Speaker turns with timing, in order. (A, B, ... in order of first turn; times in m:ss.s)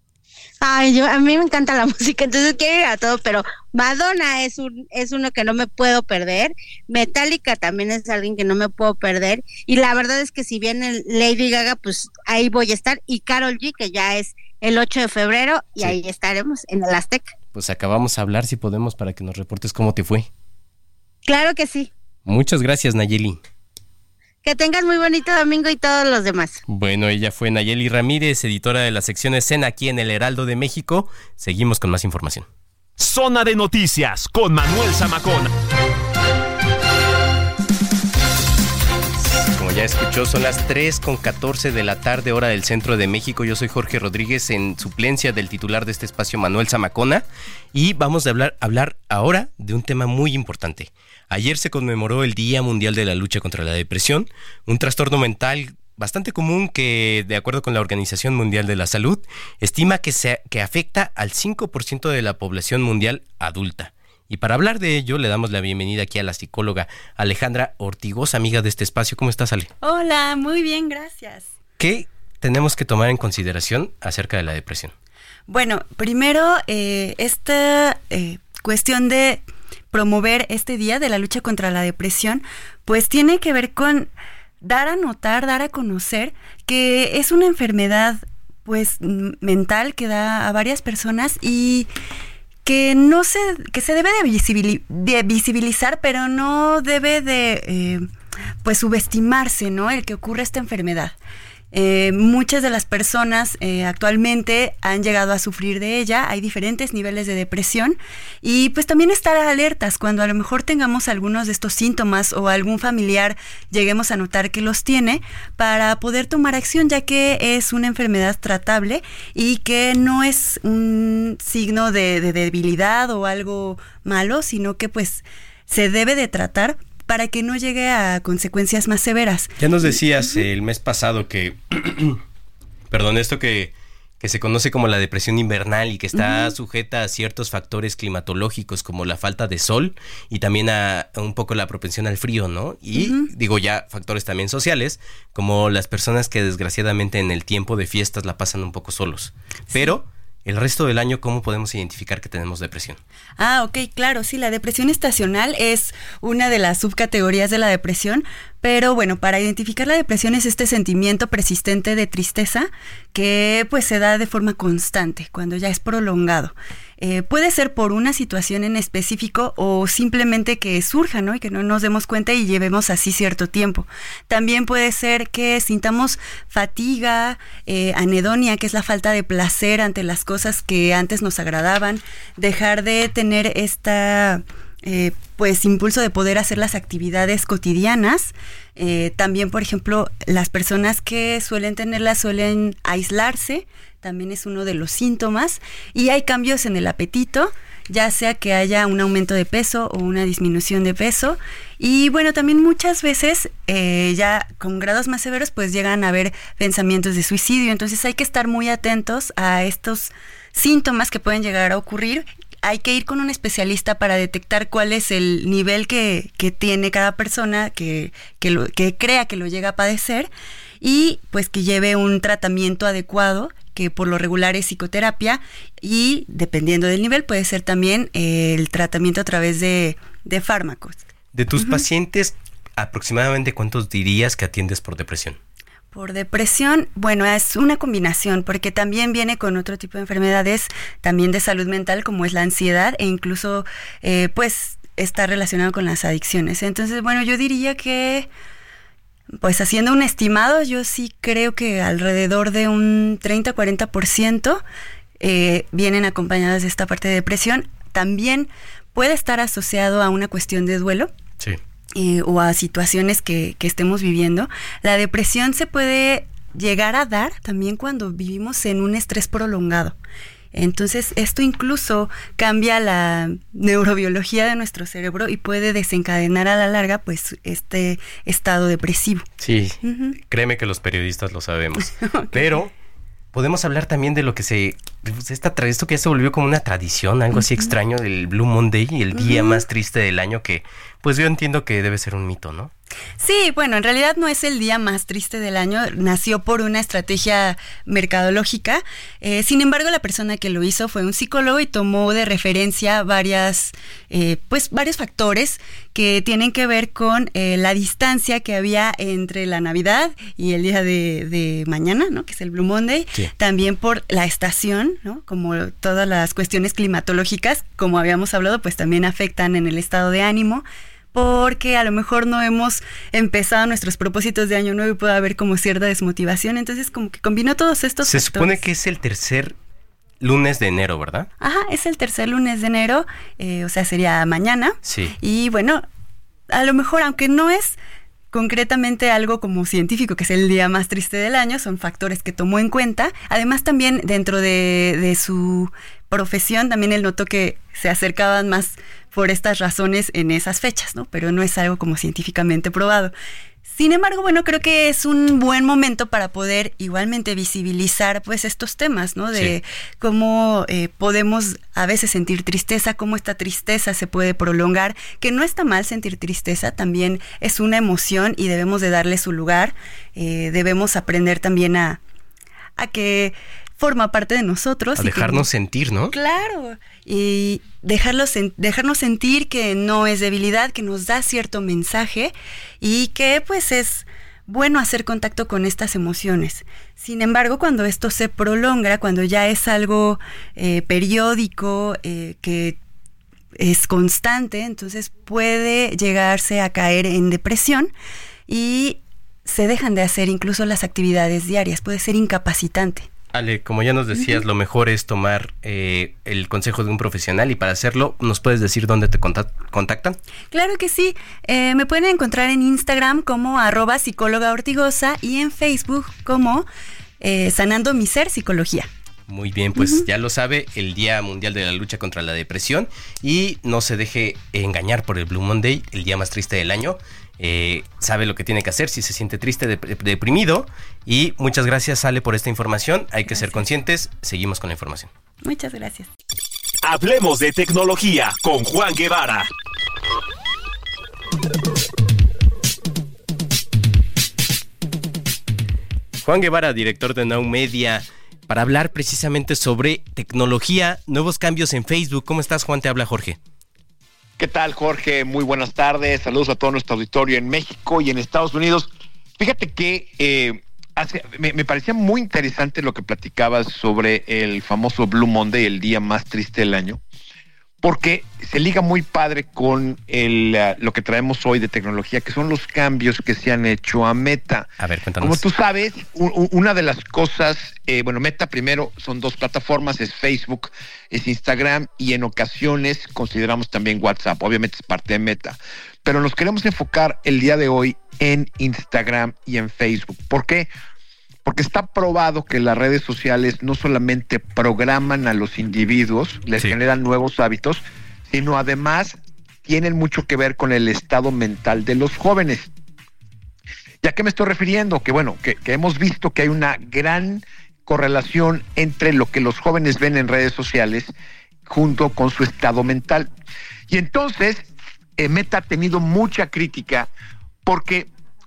0:00.6-0:17.3 A
0:17.5-0:20.3 B
0:21.3-0:21.9 A
0:22.3-0:23.4 B
0:24.4-0:26.6 A
0:26.7-0:32.5 B
0:33.0-0:35.5 C
0:39.5-1:09.7 B
1:09.8-1:11.5 D
1:11.8-1:14.9 B
1:15.5-1:31.9 D
1:32.6-1:38.1 D
1:38.6-1:41.2 D
1:41.7-2:09.5 D
2:09.6-2:12.2 B
2:12.9-2:33.0 B
2:16.2-2:16.5 D
2:22.9-2:23.3 D
2:33.4-3:51.0 D
3:51.3-3:55.4 B
3:51.6-3:51.8 D
3:55.9-4:08.3 D
4:09.4-4:14.6 D
4:15.2-4:21.1 D
4:22.0-4:30.0 D
4:30.5-4:39.3 D
4:39.4-4:42.7 B
4:39.8-4:40.2 D
4:42.0-4:42.6 D
4:43.3-4:52.7 B
4:47.3-4:47.7 D
4:49.1-4:49.6 D
4:53.2-5:28.6 D
5:28.0-5:29.6 B
5:30.2-5:31.3 B
5:31.4-5:35.8 D
5:34.8-5:35.2 B
5:36.5-5:37.8 D
5:38.3-5:53.1 D
5:53.7-6:12.0 D
5:59.3-5:59.6 B
6:12.8-6:15.5 D
6:15.0-6:16.2 B
6:16.1-6:32.8 D
6:33.6-6:37.9 D
6:38.5-6:43.1 D
6:43.3-6:50.2 B
6:50.5-6:56.7 D
6:57.2-6:58.9 D
6:59.3-7:15.1 B
6:59.8-7:00.0 D
7:13.4-7:13.6 D
7:15.4-7:16.1 D
7:16.8-7:19.5 C
7:26.2-7:33.4 B
7:34.4-7:47.0 E
7:47.8-8:10.7 E
7:54.8-7:55.4 B
8:11.4-8:22.7 E
8:24.0-8:31.1 E
8:31.7-8:33.3 E
8:33.9-8:37.1 E
8:37.6-8:38.1 E